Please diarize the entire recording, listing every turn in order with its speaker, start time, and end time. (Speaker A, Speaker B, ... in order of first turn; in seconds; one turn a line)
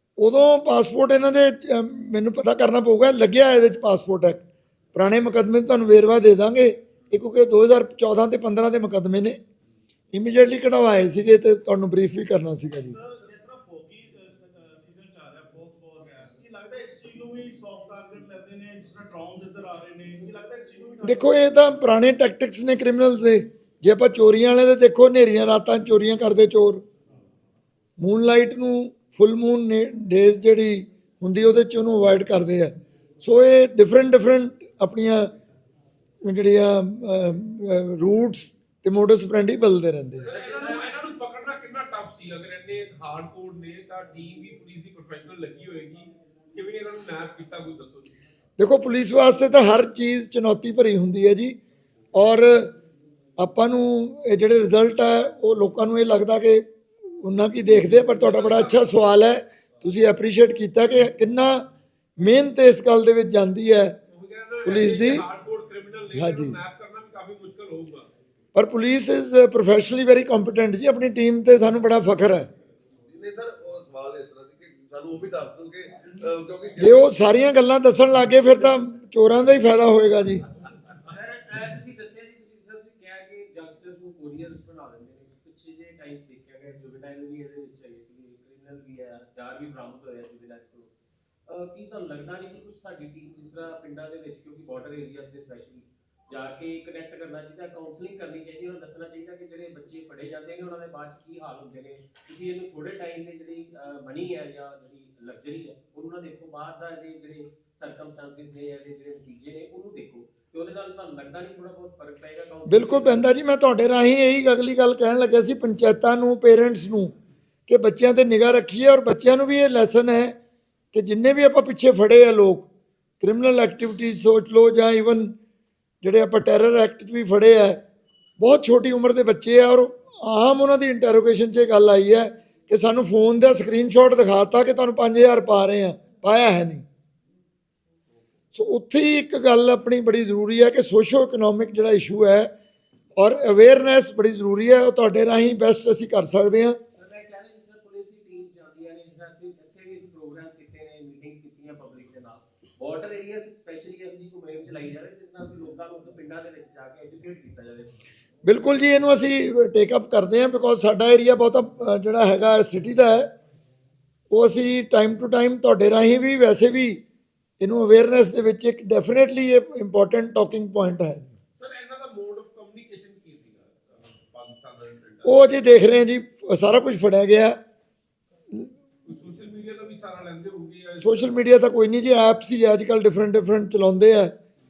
Speaker A: 0.2-9.4
Speaker A: 10.1-12.9
Speaker B: 12.9-21.3
Speaker A: 21.0-26.8
Speaker A: 28.0-32.7
Speaker A: 33.2-35.3
Speaker A: 36.2-40.2
Speaker C: 40.3-48.1
Speaker A: 48.6-51.6
Speaker A: 52.1-52.7
Speaker A: 53.4-56.6
Speaker A: 57.2-61.6
Speaker C: 58.2-58.9
Speaker A: 62.2-63.9
Speaker C: 64.1-68.1
Speaker A: 64.6-65.2
Speaker A: 66.1-66.6
Speaker A: 68.5-72.5
Speaker D: 73.1-77.2
Speaker A: 76.8-80.4
Speaker E: 81.0-90.9
Speaker E: 91.5-113.3
Speaker A: 112.7-117.1
Speaker A: 117.7-120.3
Speaker A: 120.9-122.7
Speaker A: 123.2-125.3
Speaker A: 126.0-127.8
Speaker A: 128.4-136.8
Speaker A: 138.5-142.5
Speaker A: 143.2-146.8
Speaker E: 147.0-157.9
Speaker A: 158.4-163.3
Speaker A: 164.3-167.0
Speaker A: 167.6-171.3
Speaker C: 171.6-175.4
Speaker A: 175.2-177.6
Speaker C: 179.1-181.3
Speaker A: 181.0-184.3